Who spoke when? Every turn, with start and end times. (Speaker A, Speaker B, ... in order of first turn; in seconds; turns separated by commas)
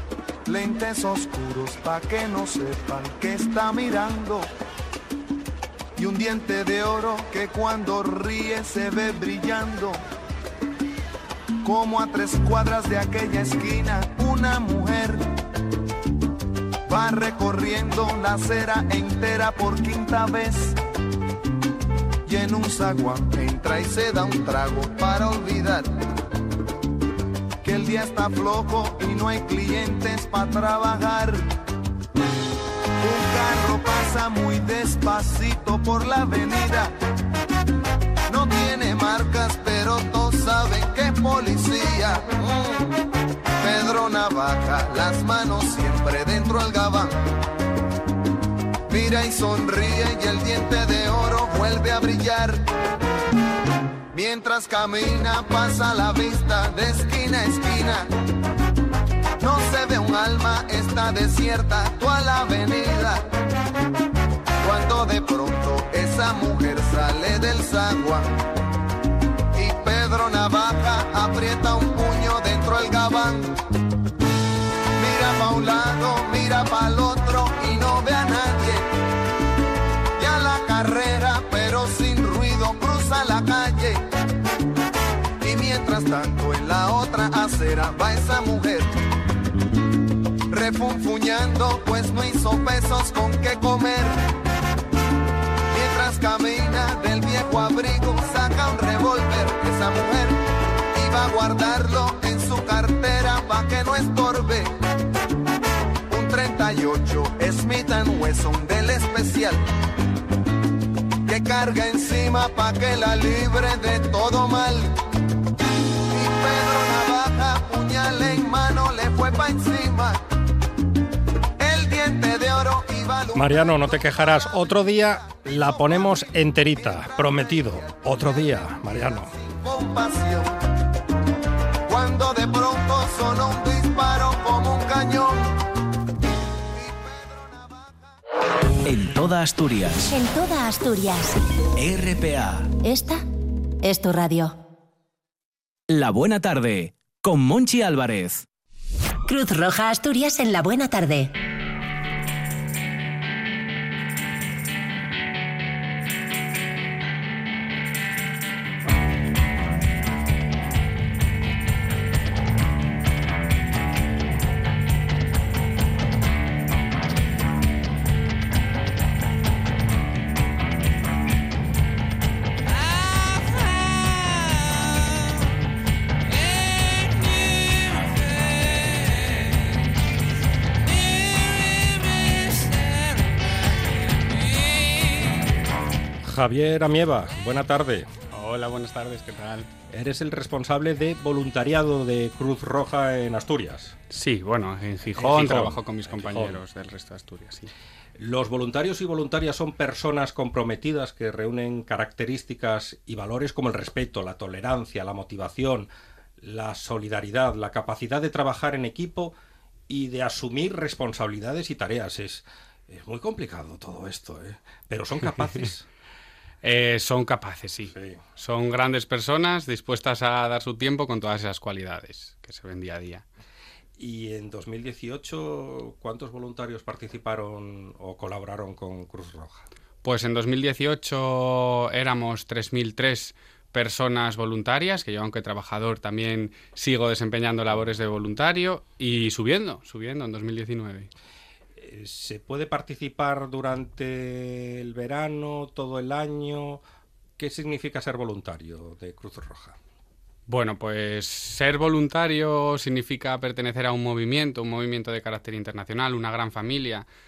Speaker A: 0.5-4.5, Speaker A: 6.0-10.0, Speaker A: 11.6-15.3, Speaker A: 16.9-20.8, Speaker A: 22.3-25.9, Speaker A: 27.6-31.5, Speaker A: 33.0-36.9, Speaker A: 38.3-43.0, Speaker A: 43.6-47.2, Speaker A: 48.9-52.6, Speaker A: 54.1-58.1, Speaker A: 59.4-63.2, Speaker A: 64.6-68.4, Speaker A: 69.5-73.6, Speaker A: 75.0-78.8, Speaker A: 80.2-84.0, Speaker A: 85.4-88.9, Speaker A: 90.5-94.2, Speaker A: 95.7-100.4, Speaker A: 100.9-104.7, Speaker A: 106.1-109.7, Speaker A: 111.3-115.0, Speaker A: 116.1-120.2, Speaker A: 121.6-130.5, Speaker B: 123.3-129.3, Speaker A: 131.9-135.6, Speaker A: 136.7-138.0, Speaker C: 138.8-140.2, Speaker D: 140.1-141.3, Speaker C: 141.8-142.7, Speaker D: 142.8-143.2, Speaker D: 143.8-144.6, Speaker C: 145.9-148.5, Speaker D: 149.3-151.3, Speaker B: 186.2-188.1, Speaker E: 188.3-189.7, Speaker B: 189.9-194.0, Speaker E: 194.1-197.7, Speaker B: 195.2-196.6, Speaker B: 198.2-205.9, Speaker B: 206.4-209.3, Speaker B: 209.9-215.9, Speaker E: 216.6-223.2, Speaker B: 217.9-218.2, Speaker B: 224.0-229.7, Speaker E: 230.0-241.1, Speaker B: 241.8-246.8, Speaker B: 247.4-249.8, Speaker E: 250.5-257.1